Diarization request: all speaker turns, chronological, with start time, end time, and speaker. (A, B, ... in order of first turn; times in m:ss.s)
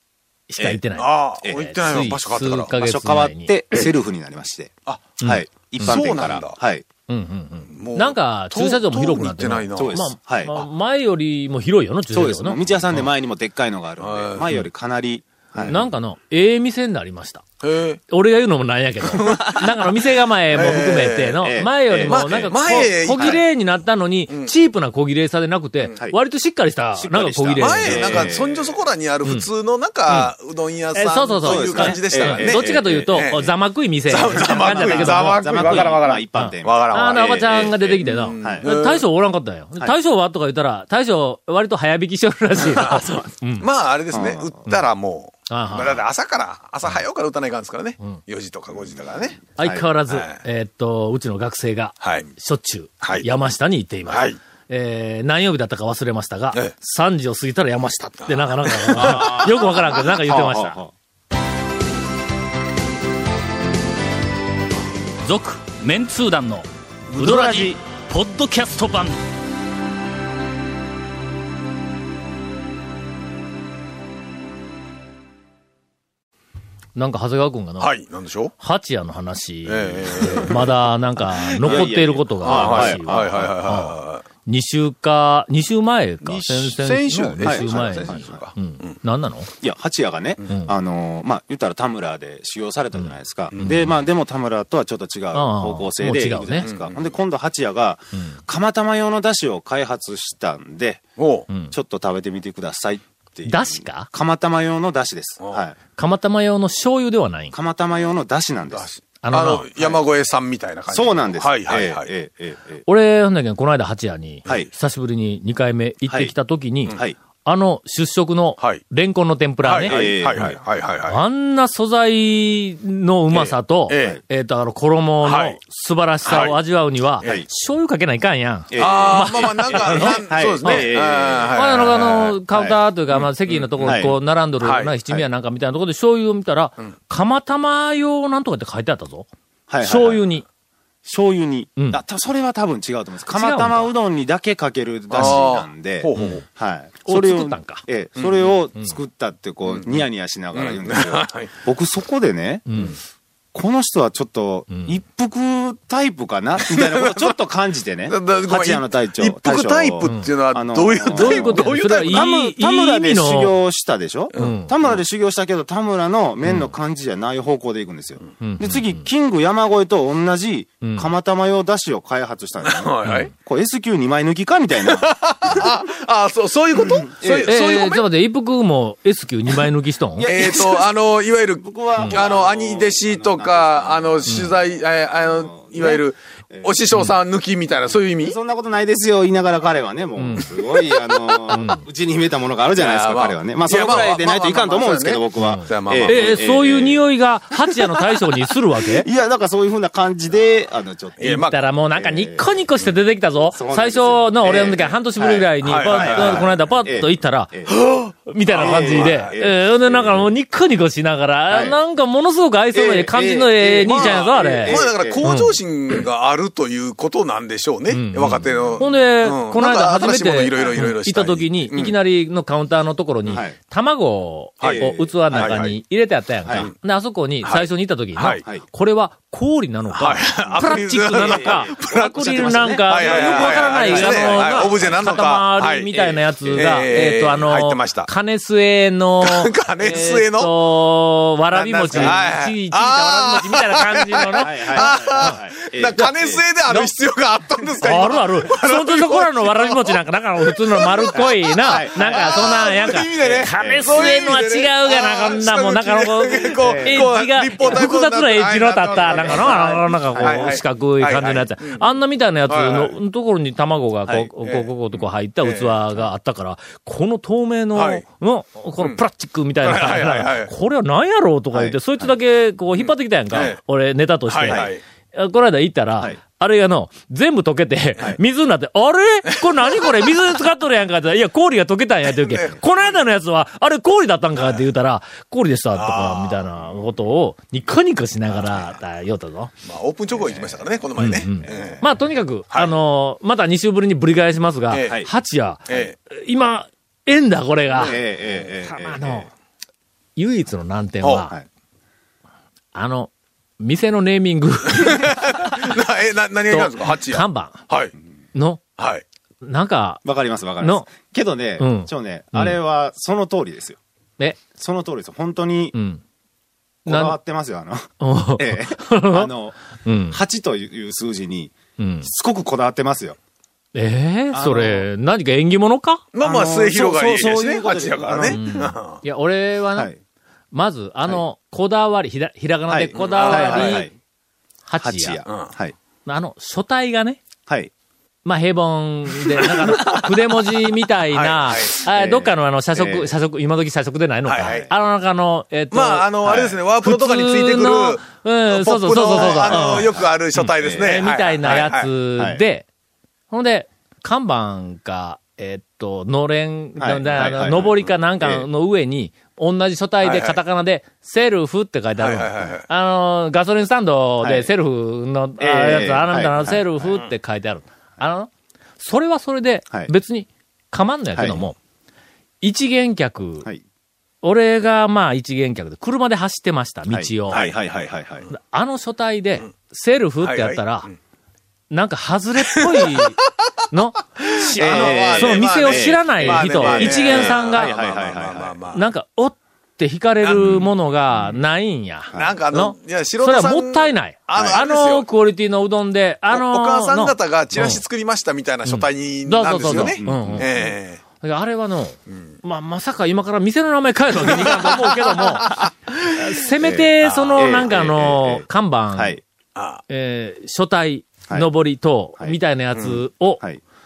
0:00.5-0:03.6 A
0:01.0-0:02.7 B
0:02.7-0:06.8 C
0:04.8-0:05.1 B
0:05.2-0:06.0 A
0:05.8-0:06.6 B
0:07.1-0:13.1 A
0:07.6-0:10.0 B
0:09.7-0:10.6 C
0:12.1-0:15.9 C
0:14.0-0:14.5 B
0:15.5-0:15.8 B
0:15.7-0:17.4 A
0:17.6-0:18.0 B
0:18.1-0:28.3 A
0:19.1-0:19.7 B
0:20.5-0:21.4 B
0:20.5-0:20.8 C
0:21.4-0:23.4 C
0:22.0-0:23.4 B
0:26.9-0:28.6 C
0:27.6-0:33.5 B
0:30.9-0:43.7 A
0:31.4-0:33.4 C
0:34.0-0:39.0 B
0:34.2-0:36.9 C
0:38.4-0:38.6 C
0:42.7-0:43.0 B
0:43.6-0:49.5 B
0:44.1-0:44.6 C
0:45.5-0:46.0 A
0:49.6-1:00.8 A
0:49.6-0:49.9 C
0:50.1-0:50.4 B
0:52.0-0:52.3 B
0:54.1-0:54.4 B
0:58.2-1:00.1 B
0:58.9-0:59.6 C
1:00.2-1:00.9 C
1:05.2-1:09.2 A
1:07.1-1:07.7 C
1:16.9-1:17.9 A
1:17.8-1:18.5 B
1:18.6-1:29.5 A
1:19.6-1:20.7 B
1:21.5-1:23.5 C
1:21.6-1:24.2 B
1:26.2-1:29.0 B
1:27.4-1:28.4 C
1:29.6-1:41.0 C
1:33.0-1:33.9 A
1:33.5-1:33.9 B
1:35.3-1:36.7 A
1:36.6-1:37.2 B
1:41.2-1:41.5 B
1:41.5-1:41.7 A
1:41.7-1:45.8 C
1:43.4-1:44.1 A
1:45.9-1:47.6 A
1:47.5-1:48.9 C
1:48.7-1:52.1 B
1:49.2-1:49.7 A
1:50.9-1:52.8 C
1:52.8-2:00.0 A
1:56.1-1:56.3 C
1:56.9-1:57.2 C
1:59.6-2:01.2 B
1:59.8-2:00.6 C
2:01.1-2:10.9 A
2:03.3-2:04.2 B
2:05.2-2:05.6 B
2:06.2-2:06.6 B
2:08.7-2:12.8 C
2:08.7-2:12.4 B
2:11.5-2:19.3 A
2:13.1-2:14.0 B
2:13.8-2:14.2 C
2:14.6-2:14.9 B
2:19.7-2:20.2 C
2:19.8-2:20.4 A
2:21.0-2:32.6 C
2:21.8-2:22.0 A
2:23.3-2:23.9 A
2:25.1-2:26.4 B
2:26.2-2:26.4 A
2:27.0-2:27.8 A
2:28.2-2:28.6 B
2:29.7-2:31.5 B
2:32.7-2:33.0 A
2:33.5-2:55.6 C
2:34.7-2:35.0 A
2:36.6-2:37.3 B
2:38.1-2:42.3 B
2:40.0-2:40.3 A
2:41.1-2:43.6 A
2:44.3-2:45.0 B
2:44.3-2:44.7 A
2:46.4-2:46.7 A
2:48.4-2:49.1 A
2:50.8-2:51.1 A
2:52.6-2:53.3 B
2:53.0-2:53.3 A
2:54.9-2:58.0 B
2:56.7-2:57.5 C
2:57.4-3:00.3 A
3:00.2-3:00.9 C
3:00.2-3:08.4 B
3:01.6-3:06.7 C
3:02.0-3:02.2 A
3:04.3-3:04.5 A
3:08.2-3:18.2 C
3:10.2-3:10.5 A
3:10.5-3:11.7 B
3:11.5-3:11.8 A
3:12.7-3:16.4 B
3:15.4-3:19.1 A
3:18.8-3:21.3 C
3:21.2-3:36.0 A
3:21.2-3:21.7 B
3:21.9-3:22.6 C
3:23.5-3:27.7 C
3:25.6-3:26.5 B
3:27.7-3:29.3 B
3:28.5-3:30.3 C
3:31.5-3:31.8 C
3:32.7-3:35.3 C
3:33.8-3:41.9 B
3:37.9-4:05.4 A
3:40.6-3:40.8 C
3:43.3-3:43.6 C
3:44.6-3:45.8 B
3:44.6-3:45.6 C
3:47.4-3:48.4 B
3:49.9-3:56.0 B
3:51.2-3:55.0 C
3:55.9-3:57.1 C
3:56.5-3:58.1 B
3:59.2-4:00.5 B
4:01.5-4:21.8 B
4:01.9-4:02.2 C
4:04.4-4:06.4 C
4:07.8-4:49.5 A
4:11.1-4:14.1 C
4:16.6-4:17.1 C
4:19.0-4:20.6 C
4:22.5-4:23.0 B
4:24.0-4:24.3 C
4:24.4-4:25.8 B
4:27.7-4:28.0 B
4:29.6-4:30.5 B
4:31.5-4:32.1 C
4:32.8-4:33.6 B
4:34.3-4:34.8 B
4:39.4-4:40.1 B
4:42.1-4:43.0 B
4:44.3-4:44.6 B
4:45.7-4:46.5 B
4:49.6-4:51.9 B
4:51.0-4:58.0 A
4:51.5-4:51.7 C
4:54.7-4:55.0 B
4:55.7-4:55.9 B
4:57.7-4:59.3 C
4:58.6-4:59.3 A
5:00.2-5:01.3 A
5:01.0-5:01.3 B
5:02.7-5:05.1 A
5:04.7-5:07.9 B
5:06.5-5:07.6 A
5:08.3-5:08.6 A
5:08.8-5:09.0 B
5:09.4-5:10.0 A
5:10.0-5:13.8 C
5:10.6-5:10.8 A
5:11.6-5:12.6 A
5:14.5-5:15.7 C
5:15.7-5:16.0 A
5:16.8-5:19.6 C
5:16.8-5:17.2 A
5:18.0-5:19.3 A
5:19.8-5:20.2 A
5:20.1-5:23.2 C
5:21.8-5:22.1 A
5:23.7-5:26.0 A
5:24.3-5:24.9 C
5:26.1-5:29.0 B
5:26.2-5:28.7 C
5:28.3-5:29.9 A
5:30.5-5:33.9 A
5:32.7-5:33.9 C
5:32.9-5:33.9 B
5:34.6-5:35.2 A
5:34.8-5:35.7 C
5:35.3-5:35.5 B
5:36.0-5:37.2 A
5:38.2-5:52.6 A
5:39.6-5:40.1 B
5:41.1-5:41.8 B
5:41.9-5:43.1 C
5:44.2-5:44.7 B
5:44.4-5:44.7 C
5:45.7-5:51.9 B
5:49.1-5:52.4 C
5:53.3-6:11.6 A
5:56.8-5:58.5 C
6:00.0-6:00.4 B
6:02.0-6:02.6 B
6:04.2-6:04.5 C
6:05.4-6:06.9 C
6:11.1-6:11.4 C
6:12.4-6:13.5 A
6:14.2-6:17.4 A
6:16.9-6:18.3 C
6:17.3-6:17.6 B
6:18.3-6:20.9 A
6:20.2-6:20.9 B
6:21.7-6:23.2 A
6:22.5-6:23.2 B
6:23.7-6:27.7 A
6:24.2-6:28.8 B
6:24.6-6:28.6 C
6:28.7-6:37.8 A
6:30.2-6:30.7 B
6:30.4-6:31.4 C
6:32.1-6:35.1 B
6:34.3-6:34.6 C
6:36.3-6:41.0 B
6:38.6-6:40.6 A
6:39.4-6:40.7 C
6:41.2-6:49.2 A
6:44.2-6:45.7 B
6:46.6-6:49.2 C
6:47.0-6:47.7 B
6:49.6-6:49.8 B
6:49.9-6:53.4 A
6:52.7-6:53.0 B